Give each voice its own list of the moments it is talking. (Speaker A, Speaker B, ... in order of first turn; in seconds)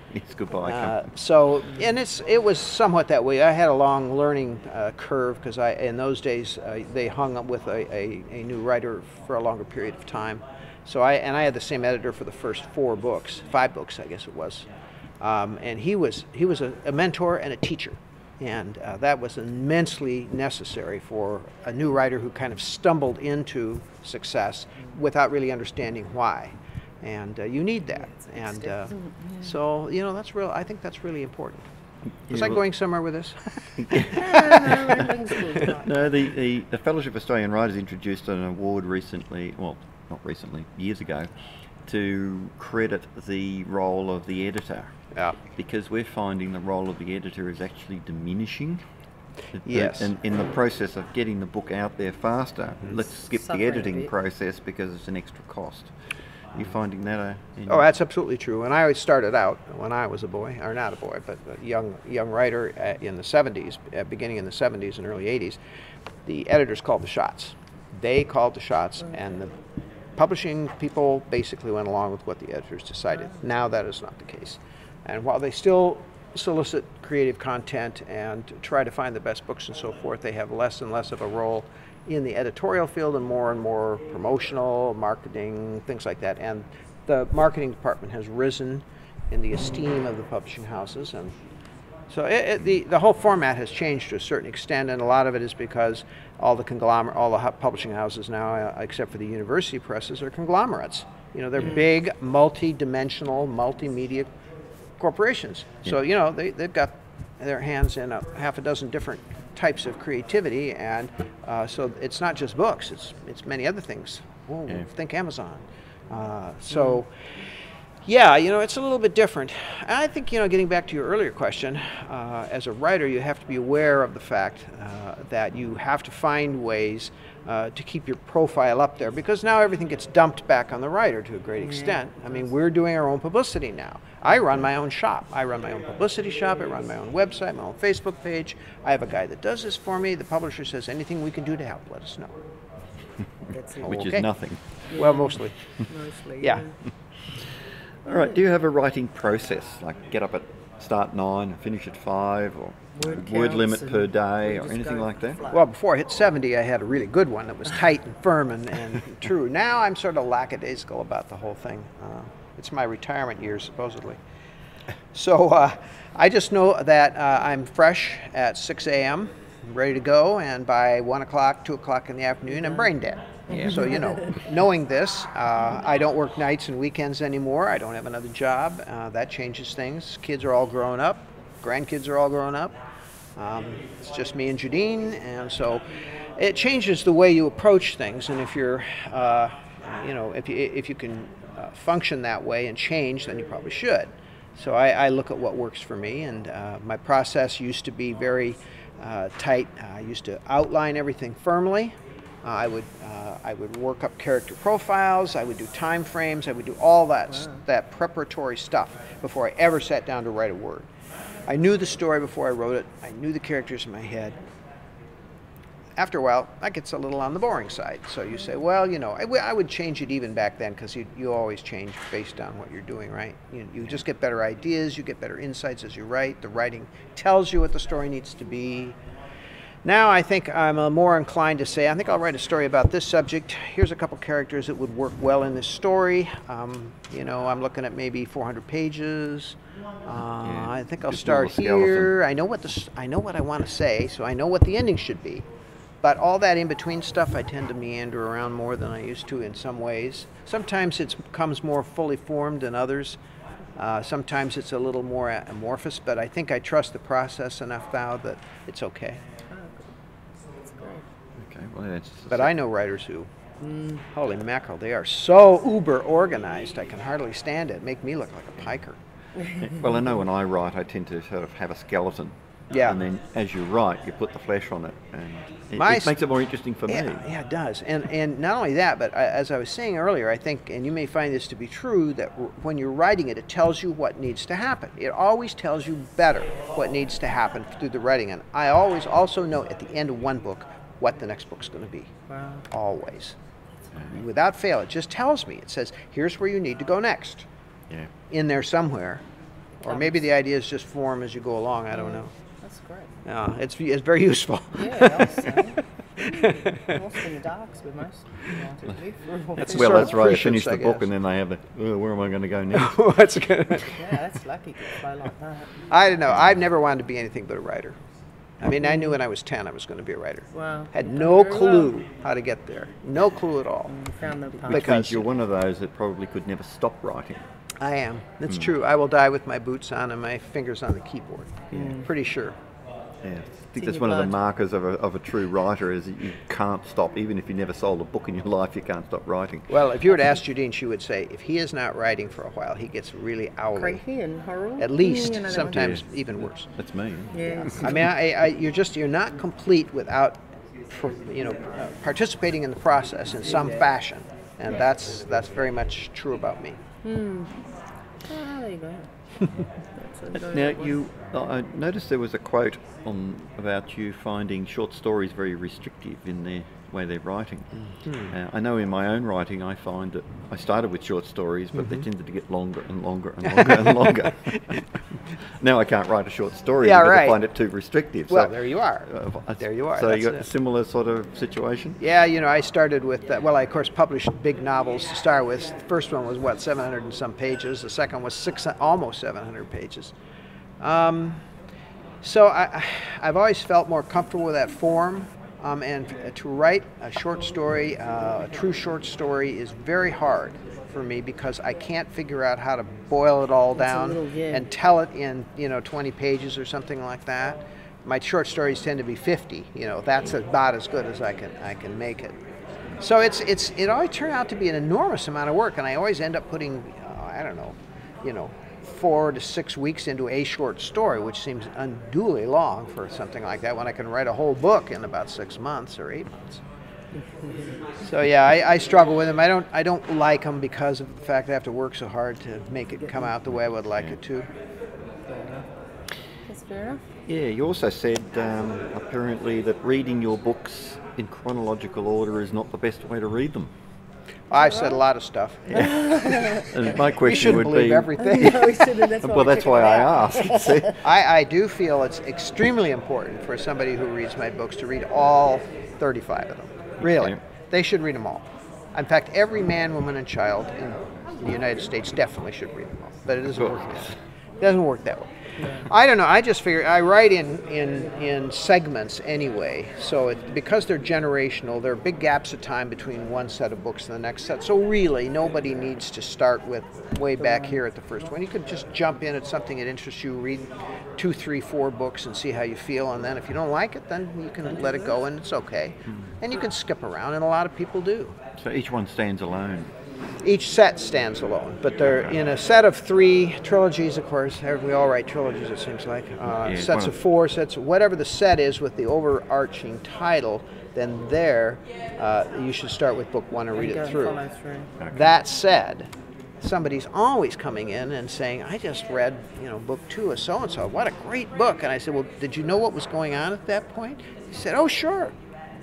Speaker A: 0.1-1.0, 32.3-32.6, 33.7-34.7, 35.8-41.3, 41.9-44.9, 45.5-48.8, 49.5-55.9, 56.5-57.8, 143.8-144.9, 148.0-155.4, 173.5-173.8, 240.4-242.1, 261.4-262.5, 269.5-277.3, 309.6-313.0, 324.6-327.4, 333.2-339.7, 345.5-346.0, 346.6-348.0, 360.3-374.7, 375.6-382.0, 437.2-443.7, 445.7-448.1, 449.2-451.0, 457.0-457.4, 463.6-464.1, 488.6-489.9, 492.0-492.3, 496.5-497.2, 505.0-505.3
Speaker B: 0.6-14.7, 15.2-31.7, 32.3-34.2, 45.1-45.4, 49.6-50.1, 57.7-65.6, 66.2-69.5, 70.2-91.3, 92.1-104.3, 105.0-117.1, 118.0-142.3, 143.8-145.7, 155.5-164.2, 165.1-182.8, 183.3-185.8, 186.4-210.9, 211.5-214.4, 215.9-228.9, 229.8-245.4, 246.0-253.2, 253.8-259.2, 262.3-263.3, 264.1-269.0, 272.7-273.0, 275.8-276.1, 276.9-292.1, 292.7-293.4, 294.0-297.5, 298.3-299.2, 299.8-302.3, 303.2-305.7, 306.2-306.9, 309.6-311.1, 312.7-314.0, 315.9-318.0, 318.6-323.9, 324.5-325.3, 327.8-332.6, 339.7-344.0, 344.8-346.7, 347.7-356.8, 367.8-368.3, 371.8-372.0, 373.5-374.7, 376.8-377.4, 378.3-380.5, 382.0-390.1, 390.8-391.4, 392.2-412.4, 413.0-426.6, 428.0-434.5, 444.5-446.2, 446.8-449.1, 451.0-488.4, 490.4-504.4, 505.1-515.3
Speaker C: 27.9-29.5, 34.1-36.0, 53.3-54.1, 116.7-117.0, 131.6-132.0, 143.5-144.1, 144.9-145.3, 145.9-146.8, 152.9-155.6, 259.5-259.9, 260.6-261.0, 263.6-264.0, 292.3-292.6, 299.8-300.2, 301.9-303.1, 304.7-310.2, 313.7-315.9, 318.8-319.2, 320.5-321.9, 323.9-324.9, 331.7-332.0, 333.7-334.3, 343.7-345.9, 347.3-348.0, 357.0-357.6, 358.2-359.1, 359.9-360.9, 403.7-404.6, 435.3-435.6, 436.5-437.0, 444.5-445.0, 445.7-446.7, 448.2-450.9, 465.6-465.9, 477.4-477.8, 503.7-504.9